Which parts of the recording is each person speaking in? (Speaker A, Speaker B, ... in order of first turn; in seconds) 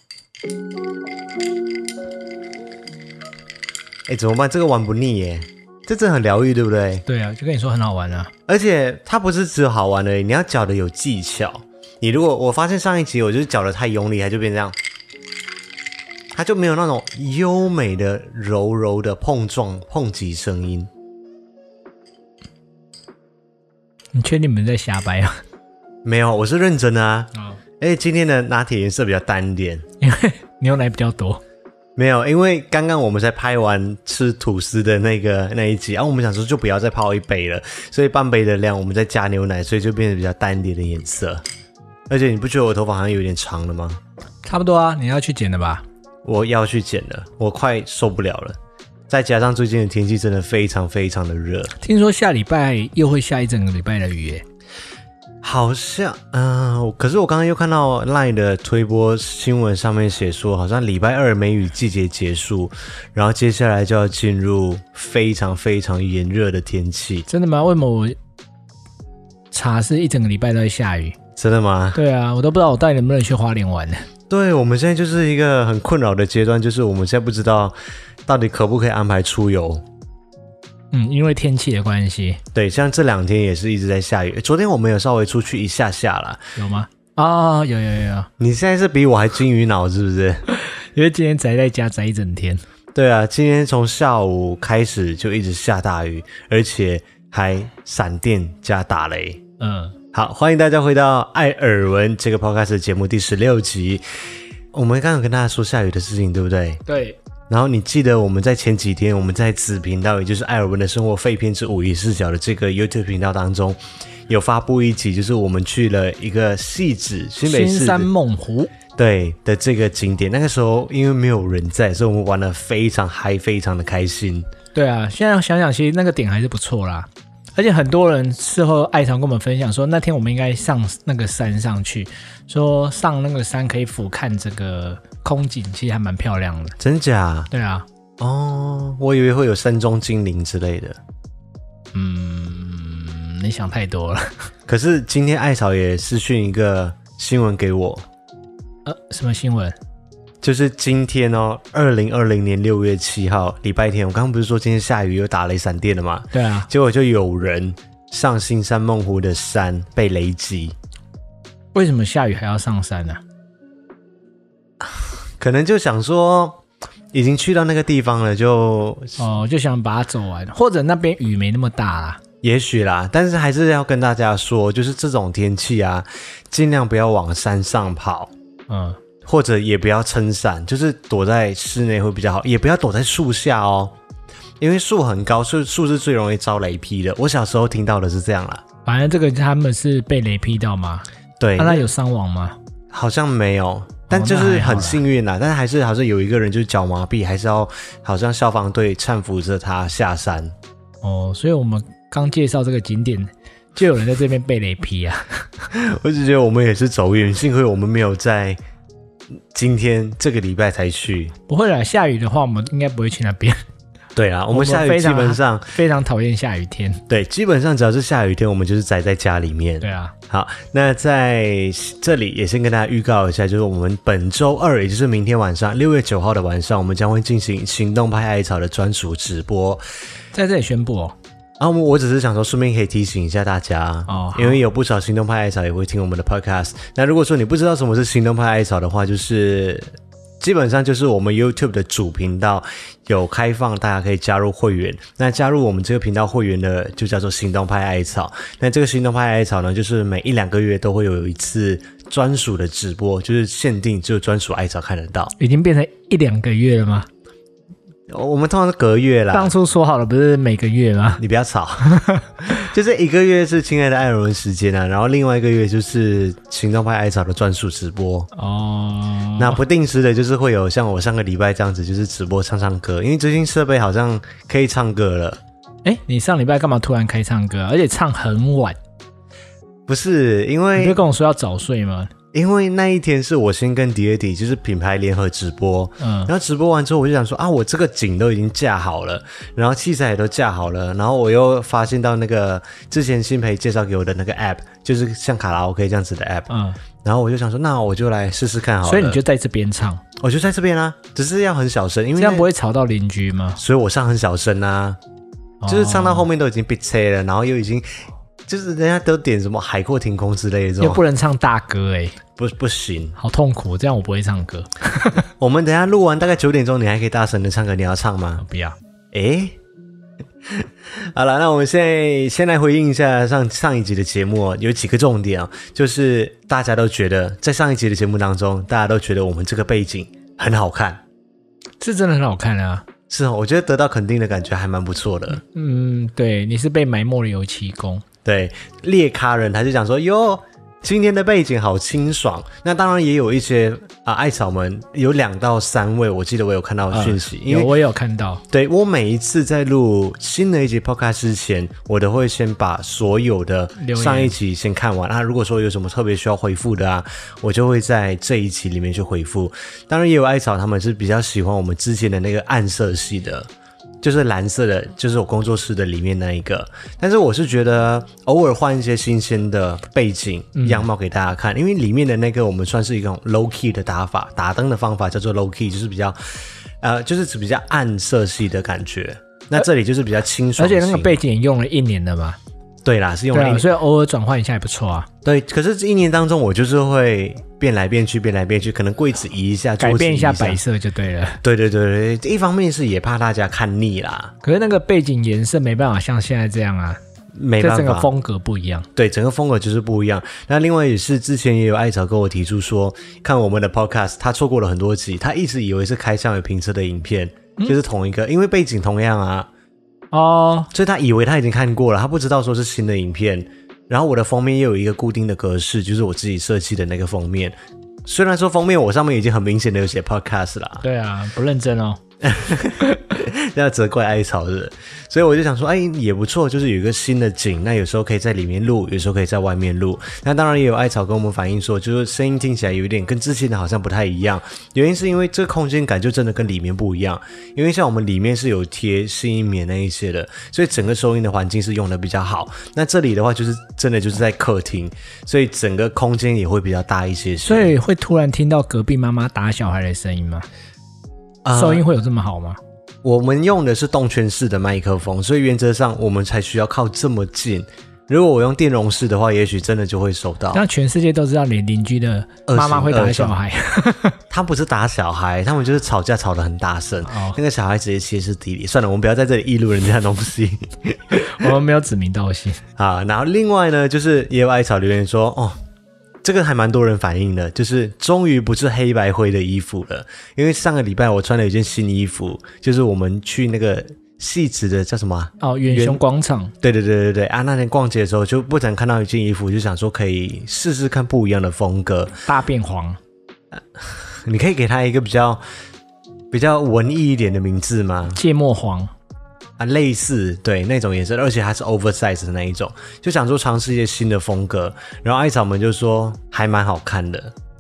Speaker A: 4.1-7.0, 8.5-14.8, 16.3-20.9, 26.0-29.9, 32.0-41.4, 42.1-44.0, 46.2-48.6, 49.1-51.7, 55.4-67.2, 71.4-72.0, 74.3-77.7, 78.2-79.8, 82.5-86.4, 88.4-90.4, 92.9-99.4, 100.1-104.0, 104.7-106.8, 107.5-118.1, 119.0-124.5, 136.8-137.5, 138.2-141.0, 144.7-148.1, 150.4-160.8, 164.8-166.6, 167.1-169.2, 172.4-178.3, 179.2-183.9, 184.6-188.6, 191.4-191.9, 192.9-200.6, 205.7-208.6, 209.5-211.4, 214.2-215.8, 217.1-229.8, 231.6-255.3, 258.1-259.5, 261.2-268.3, 269.4-275.4, 279.9-281.0, 282.3-296.5, 297.0-299.2, 300.2-302.5, 303.6-305.0, 305.7-307.9, 308.5-311.0, 312.4-313.2, 315.4-318.4, 319.1-319.6, 320.4-331.0, 333.1-335.4, 338.2-347.7, 348.5-363.5, 364.0-381.2, 382.9-383.7, 385.2-390.6, 391.4-394.3, 397.4-398.1, 398.9-409.5, 410.7-417.6, 418.1-420.8, 422.2-447.7, 451.4-451.8, 453.0-460.6, 462.5-463.4, 464.3-471.5, 472.8-475.6, 476.2-486.0, 486.6-492.1, 493.8-495.4, 496.3-498.2, 499.6-507.3
Speaker B: 7.0-8.3, 24.1-25.4, 30.0-31.4, 44.5-45.8, 51.8-54.4, 67.3-68.2, 69.5-71.2, 71.9-74.0, 80.9-82.4, 86.5-88.3, 90.5-92.6, 99.6-100.0, 106.9-107.2, 117.4-118.7, 124.7-136.8, 137.5-137.9, 141.9-144.4, 148.8-149.8, 156.3-156.7, 161.7-163.2, 169.2-172.2, 178.7-179.0, 188.8-191.1, 191.6-192.6, 194.1-195.0, 201.0-205.4, 211.5-213.6, 214.5-217.0, 219.8-220.1, 230.3-231.2, 234.1-234.6, 255.4-257.1, 259.3-261.2, 261.9-262.3, 268.4-269.6, 275.9-278.8, 280.8-282.1, 286.0-286.3, 296.5-296.8, 298.8-300.0, 302.2-303.6, 305.6-306.2, 310.8-312.2, 313.2-315.3, 318.4-318.8, 331.8-332.9, 335.3-338.0, 346.9-348.4, 353.8-354.3, 370.6-370.9, 380.6-382.4, 383.3-385.1, 389.8-391.4, 394.4-397.0, 397.6-398.9, 410.1-410.7, 420.8-422.0, 447.4-450.4, 451.5-452.6, 460.5-464.2, 467.0-467.4, 471.2-472.6, 485.4-486.5, 492.2-493.0, 498.1-498.9